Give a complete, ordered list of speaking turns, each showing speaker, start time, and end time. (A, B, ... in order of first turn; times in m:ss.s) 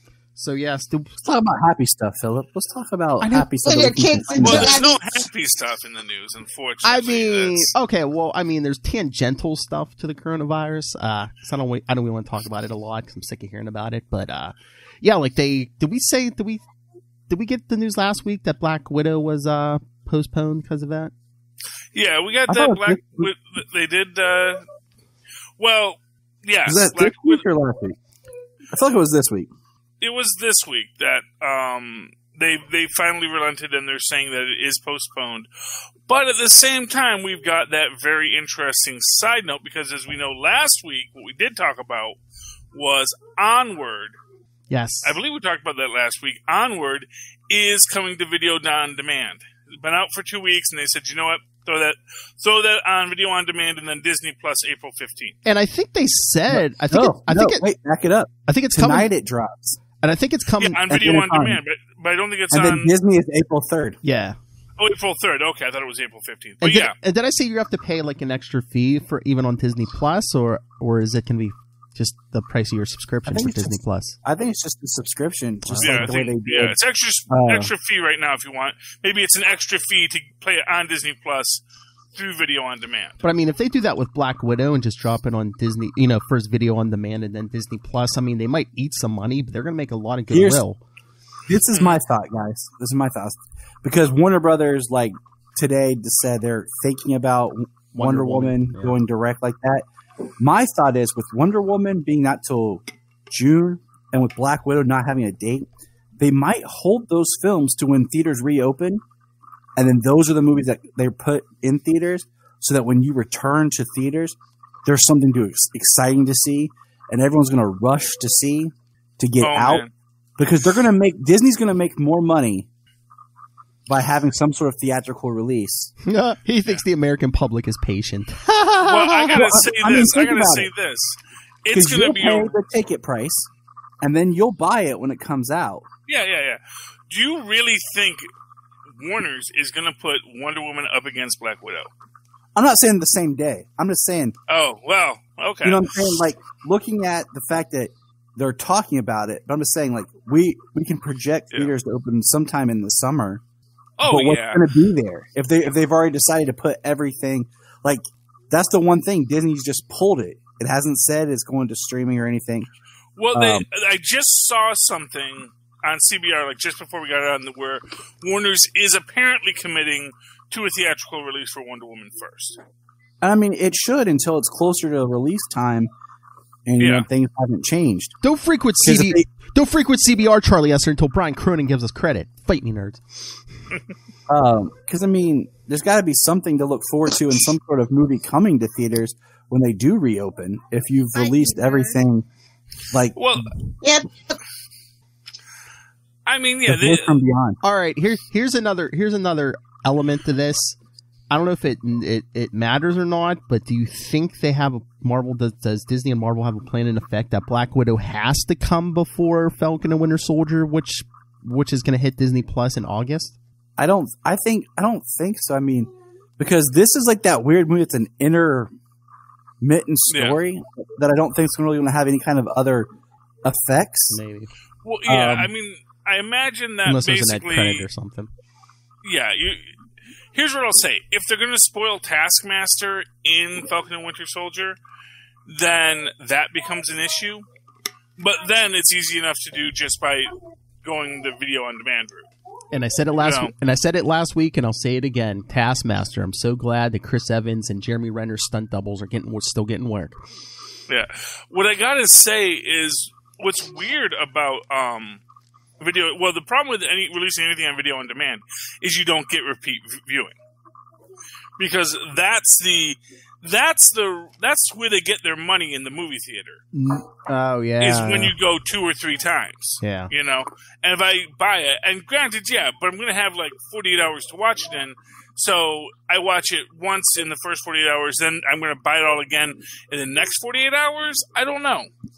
0:00.4-0:01.2 A
0:01.2-0:04.8 B
0:03.2-0:03.5 A
0:03.6-0:05.0 C
0:04.4-0:07.7 D
0:06.8-0:16.6 A
0:17.3-0:21.1 A
0:21.9-0:24.6 D
0:22.5-0:23.3 B
0:25.6-0:27.4 D
0:26.7-0:28.0 B
0:28.7-0:29.5 B
0:30.0-0:35.5 D
0:36.1-0:42.2 D
0:42.7-0:44.2 D
0:44.7-0:45.2 A
0:45.0-0:55.4 D
0:55.5-0:57.6 A
0:56.5-0:59.8 B
0:58.5-0:59.1 A
1:00.0-1:00.8 A
1:00.6-1:02.9 D
1:00.9-1:01.6 B
1:02.5-1:04.0 B
1:04.0-1:04.4 A
1:04.8-1:06.9 D
1:06.6-1:14.2 A
1:13.3-1:16.8 B
1:15.6-1:16.1 A
1:15.8-1:21.6 D
1:17.3-1:17.7 B
1:22.2-1:23.2 D
1:23.2-1:30.8 A
1:30.3-1:30.6 B
1:31.5-1:39.9 B
1:31.7-1:32.0 D
1:37.9-1:39.0 A
1:40.4-1:49.0 B
1:49.8-1:59.8 B
1:59.4-1:59.9 D
2:00.4-2:02.7 B
2:03.9-2:05.9 B
2:06.0-2:09.4 A
2:08.8-2:12.6 D
2:09.3-2:10.7 B
2:11.7-2:13.5 B
2:14.0-2:15.8 B
2:16.1-2:18.3 D
2:19.0-2:21.9 D
2:22.6-2:24.4 B
2:24.5-2:25.9 D
2:25.6-2:33.4 B
2:34.0-2:34.6 D
2:34.0-2:42.7 B
2:43.2-2:52.6 D
2:43.3-2:43.7 B
2:53.2-2:55.9 B
2:56.7-2:58.2 B
2:56.8-2:57.1 D
2:58.2-3:03.3 A
2:58.8-2:59.2 B
3:04.3-3:12.3 B
3:11.2-3:12.0 C
3:12.9-3:13.2 B
3:13.2-3:13.5 D
3:13.8-3:14.4 C
3:16.3-3:17.2 D
3:16.7-3:17.6 B
3:17.6-3:20.8 A
3:21.3-3:33.4 A
3:33.8-3:38.7 B
3:39.6-3:42.9 B
3:40.1-3:40.4 D
3:43.4-3:44.2 B
3:44.1-3:44.5 A
3:44.8-3:47.9 D
3:45.1-3:45.5 B
3:46.9-3:48.3 A
3:49.0-3:49.7 D
3:50.3-3:54.8 D
3:55.5-3:57.5 D
3:58.2-4:00.3 D
4:00.8-4:02.3 D
4:02.7-4:10.2 A
4:03.2-4:03.5 D
4:10.9-4:15.2 D
4:15.8-4:20.4 D
4:21.6-4:26.6 D
4:26.7-4:28.3 A
4:27.8-4:41.9 D
4:29.8-4:30.1 A